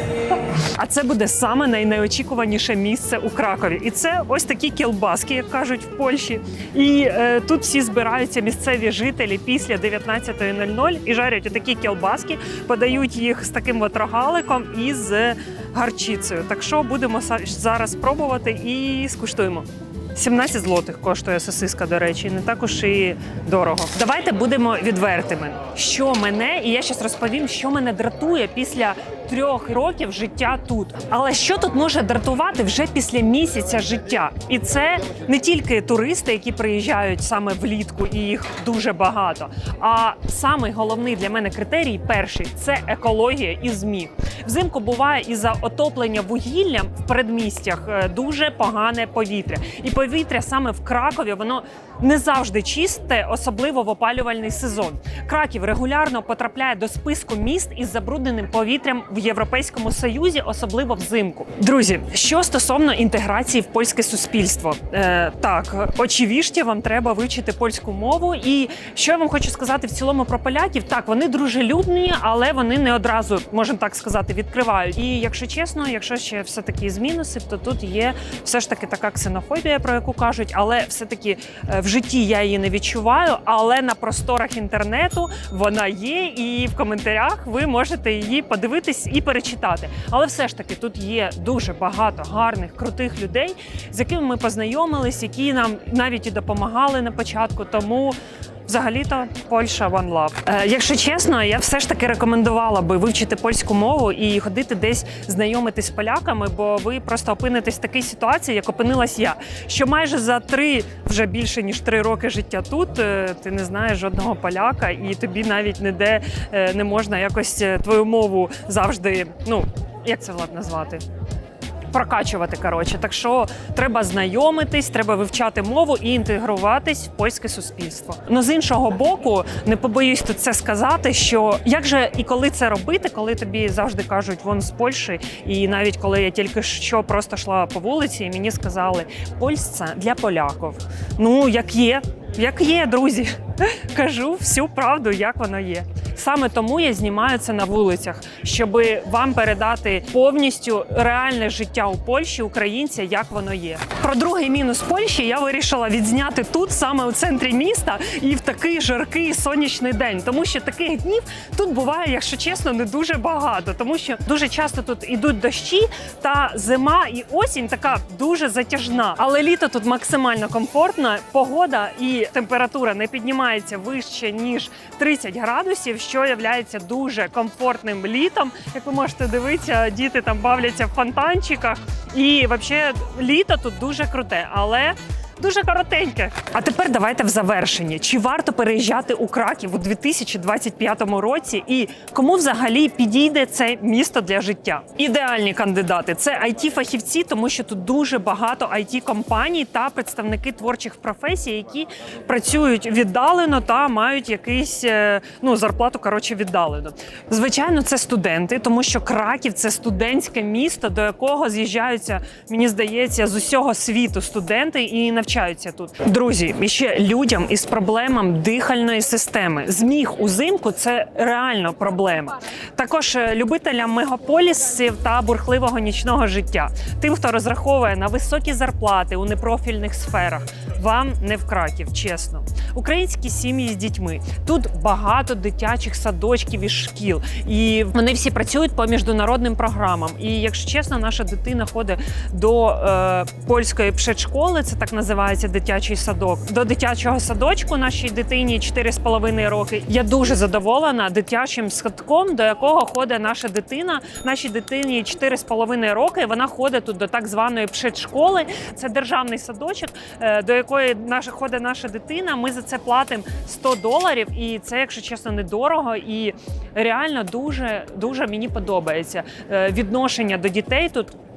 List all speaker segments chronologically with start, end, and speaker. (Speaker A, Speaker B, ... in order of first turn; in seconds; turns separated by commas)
Speaker A: 0.3-121.0, Speaker A: 121.9-271.1